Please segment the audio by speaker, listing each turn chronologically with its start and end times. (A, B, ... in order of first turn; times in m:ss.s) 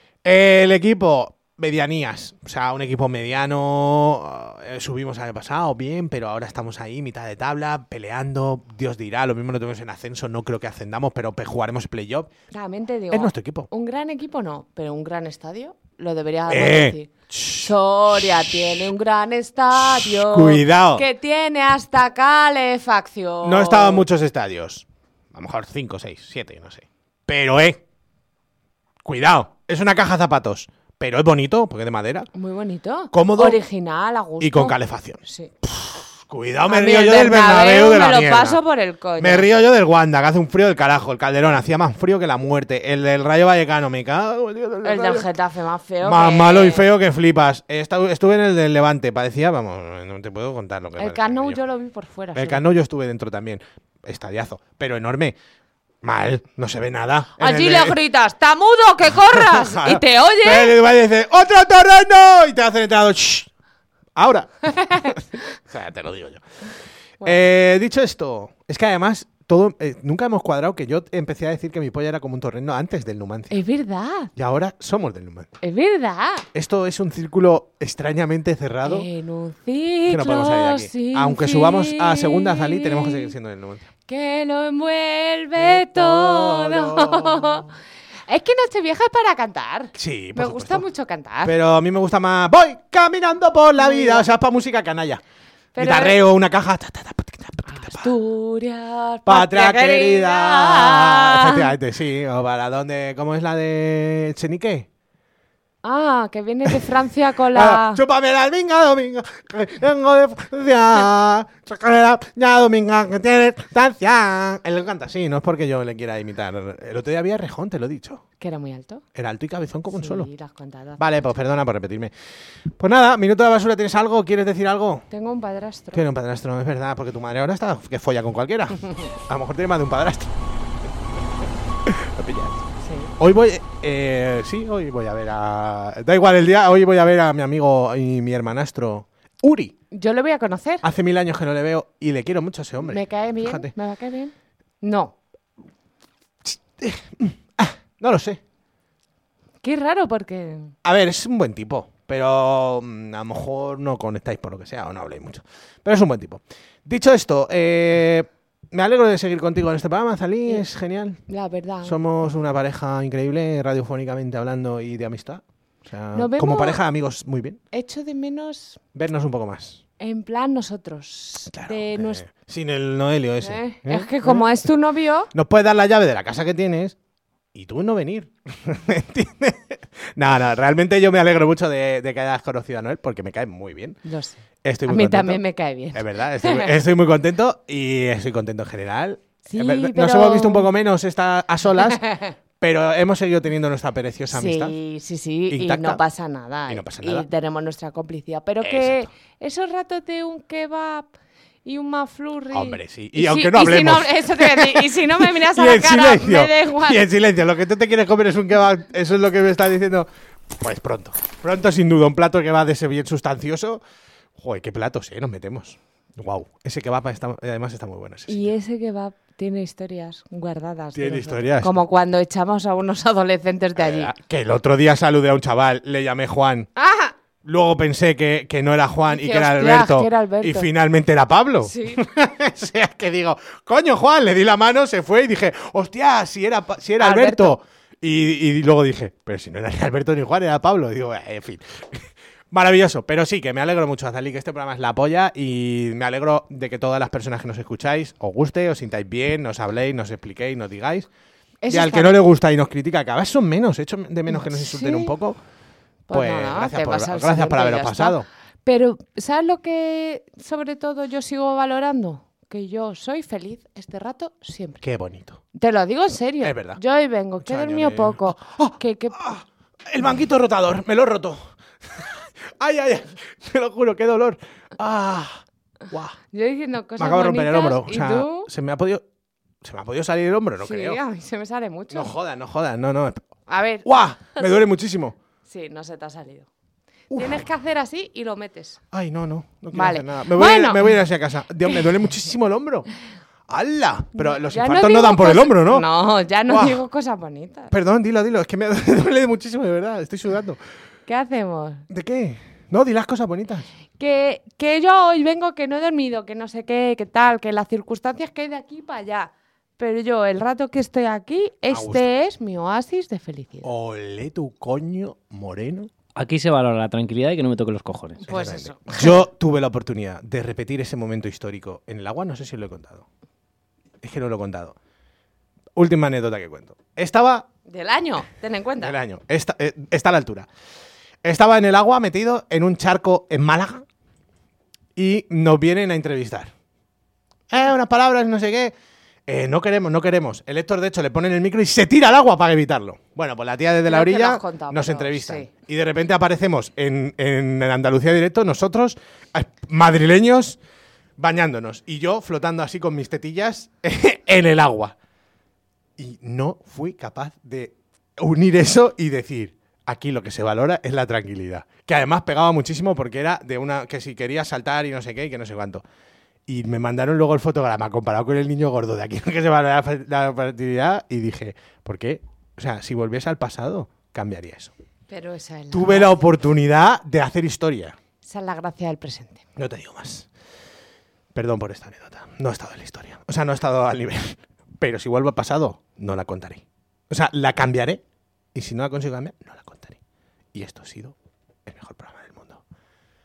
0:00.2-0:12.3 A
0:12.5-0:24.0 B
0:13.1-0:13.7 A
0:16.5-0:17.7 A
0:19.7-0:21.0 A
0:23.4-0:27.8 A
0:29.0-0:32.3 A
0:32.3-0:34.7 B
0:33.1-0:33.6 A
0:34.4-0:38.6 A
0:35.2-0:35.5 B
0:36.7-0:39.5 B
0:39.2-0:45.3 A
0:44.8-0:46.9 B
0:46.0-0:51.6 A
0:51.0-0:52.6 B
0:52.3-0:55.4 A
0:56.0-0:58.0 A
0:57.4-1:00.8 B
0:59.1-1:03.5 A
1:04.2-1:06.4 A
1:04.8-1:05.1 B
1:07.2-1:13.6 A
1:13.5-1:14.3 B
1:14.3-1:15.5 A
1:15.6-1:16.4 B
1:16.5-1:19.1 A
1:18.8-1:23.3 B
1:20.1-1:23.8 A
1:24.1-1:27.7 B
1:25.6-1:27.8 A
1:28.3-1:31.5 B
1:29.9-1:30.8 A
1:31.4-1:35.2 A
1:33.8-1:34.3 B
1:35.7-1:36.2 B
1:35.8-1:38.1 A
1:37.7-1:41.7 B
1:39.2-1:44.9 A
1:45.8-1:48.0 B
1:47.5-1:58.2 A
1:58.4-1:59.0 B
1:59.1-2:00.3 A
1:59.9-2:01.3 B
2:01.0-2:02.1 A
2:02.8-2:05.0 A
2:05.1-2:06.0 B
2:05.9-2:10.3 A
2:11.8-2:12.6 A
2:12.8-2:13.1 B
2:13.2-2:19.7 A
2:19.9-2:20.8 B
2:20.8-2:23.7 A
2:22.8-2:25.1 B
2:26.4-2:28.4 A
2:29.6-2:30.7 B
2:30.8-2:41.2 A
2:41.3-2:42.0 B
2:41.8-2:47.6 A
2:46.1-2:46.8 B
2:47.7-2:48.8 B
2:48.9-2:49.8 A
2:50.0-2:52.2 B
2:51.5-2:54.6 A
2:53.4-2:55.3 B
2:55.3-2:57.0 A
2:57.5-3:04.0 A
3:04.0-3:06.7 B
3:04.6-3:05.4 A
3:05.9-3:12.1 A
3:09.5-3:10.7 B
3:12.0-3:12.3 B
3:12.6-3:14.7 A
3:14.3-3:21.1 B
3:15.5-3:16.0 A
3:16.7-3:17.3 A
3:18.6-3:19.1 A
3:21.6-3:27.0 B
3:22.5-3:33.8 A
3:34.4-3:38.5 A
3:38.3-3:44.1 B
3:40.9-3:41.8 A
3:43.7-3:46.7 A
3:46.8-3:47.1 B
3:47.4-4:11.1 A
3:49.1-3:50.7 B
3:51.6-3:52.0 B
3:57.0-3:57.6 B
4:11.6-4:12.2 B
4:11.7-4:15.4 A
4:14.3-4:15.1 B
4:16.1-4:24.8 B
4:16.1-4:18.2 A
4:24.8-4:25.4 A
4:25.5-4:29.2 B
4:26.4-4:26.8 A
4:27.4-4:36.2 A
4:36.3-4:38.5 B
4:37.0-4:39.0 A
4:39.6-4:41.0 A
4:40.6-4:42.1 B
4:41.9-4:43.3 A
4:43.5-4:44.5 B
4:43.8-4:45.2 A
4:45.5-4:46.5 B
4:47.1-4:47.4 A
4:47.1-4:48.8 B
4:48.9-4:52.9 A
4:49.7-4:51.0 B
4:53.5-4:55.8 A
4:54.1-4:57.7 B
4:56.5-4:56.8 A
4:57.7-5:00.6 A
5:01.1-5:01.8 B
5:01.9-5:03.7 A
5:04.0-5:13.7 B
5:11.7-5:12.1 A
5:13.6-5:15.9 A
5:16.2-5:18.2 C
5:18.2-5:19.2 B
5:18.2-5:23.0 A
5:24.0-5:24.8 A
5:25.8-5:27.5 A
5:27.7-5:29.0 B
5:28.8-5:30.5 A
5:31.2-5:33.8 A
5:35.0-5:36.5 A
5:37.5-5:38.7 A
5:39.3-5:50.6 A
5:43.9-5:45.5 B
5:51.2-5:54.9 A
5:56.0-6:05.8 A
6:06.5-6:14.7 A
6:15.1-6:16.2 B
6:15.7-6:18.0 A
6:18.2-6:19.4 B
6:19.6-6:20.3 A
6:21.3-6:28.0 A
6:28.5-6:30.0 A
6:30.5-6:31.1 A
6:31.6-6:32.6 A